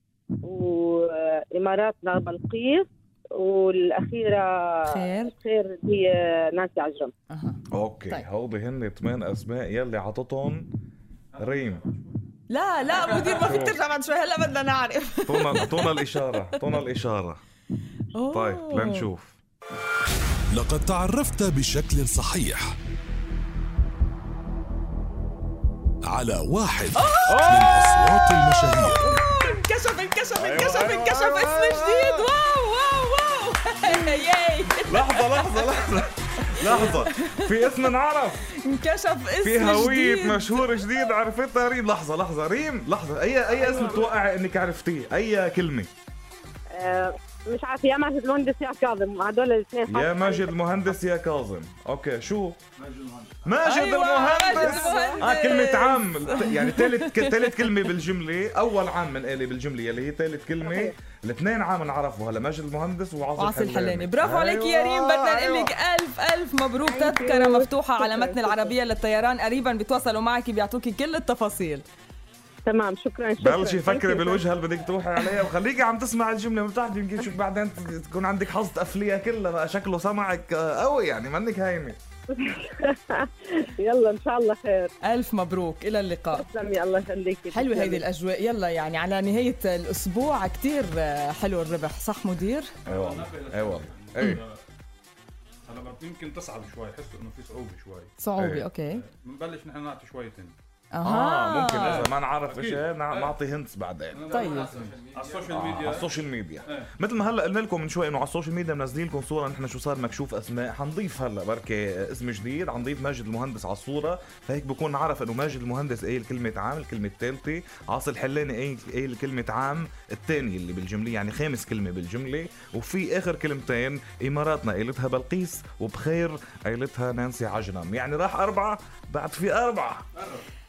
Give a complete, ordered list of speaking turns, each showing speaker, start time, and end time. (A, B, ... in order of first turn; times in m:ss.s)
0:00.4-0:07.1 A
0:04.8-0:05.3 B
0:07.3-0:08.2 B
0:07.7-0:10.7 C
0:11.3-0:12.3 D
0:11.4-0:11.8 C
0:12.5-0:16.0 B
0:12.9-0:13.5 D
0:13.4-0:13.8 C
0:15.3-0:17.4 C
0:18.1-0:19.1 B
0:18.3-0:19.4 C
0:20.5-0:22.8 E
0:26.1-0:29.2 E
0:26.9-0:35.8 B
0:27.3-0:27.8 C
0:30.4-0:32.3 C
0:34.8-0:38.5 C
0:36.5-0:37.3 B
0:38.6-0:40.8 B
0:39.4-0:45.9 C
0:43.5-0:44.1 A
0:46.7-0:50.5 A
0:49.9-0:52.6 C
0:52.8-0:53.6 D
0:53.4-1:05.7 C
0:53.6-0:57.7 B
0:54.4-0:55.2 A
1:00.6-1:00.9 A
1:03.4-1:11.8 B
1:06.9-1:08.7 A
1:12.6-1:14.4 A
1:13.4-1:22.0 C
1:22.3-1:24.9 A
1:25.0-1:26.5 B
1:26.3-1:28.0 A
1:27.5-1:32.7 B
1:32.8-1:34.4 C
1:32.8-1:34.6 D
1:35.6-1:38.1 D
1:38.2-1:39.0 B
1:38.4-1:38.7 C
1:38.9-1:40.5 D
1:40.9-1:42.0 B
1:41.0-1:44.4 C
1:41.7-1:43.3 D
1:44.1-1:46.1 D
1:44.3-1:44.8 B
1:45.5-2:10.0 C
2:10.2-2:10.4 D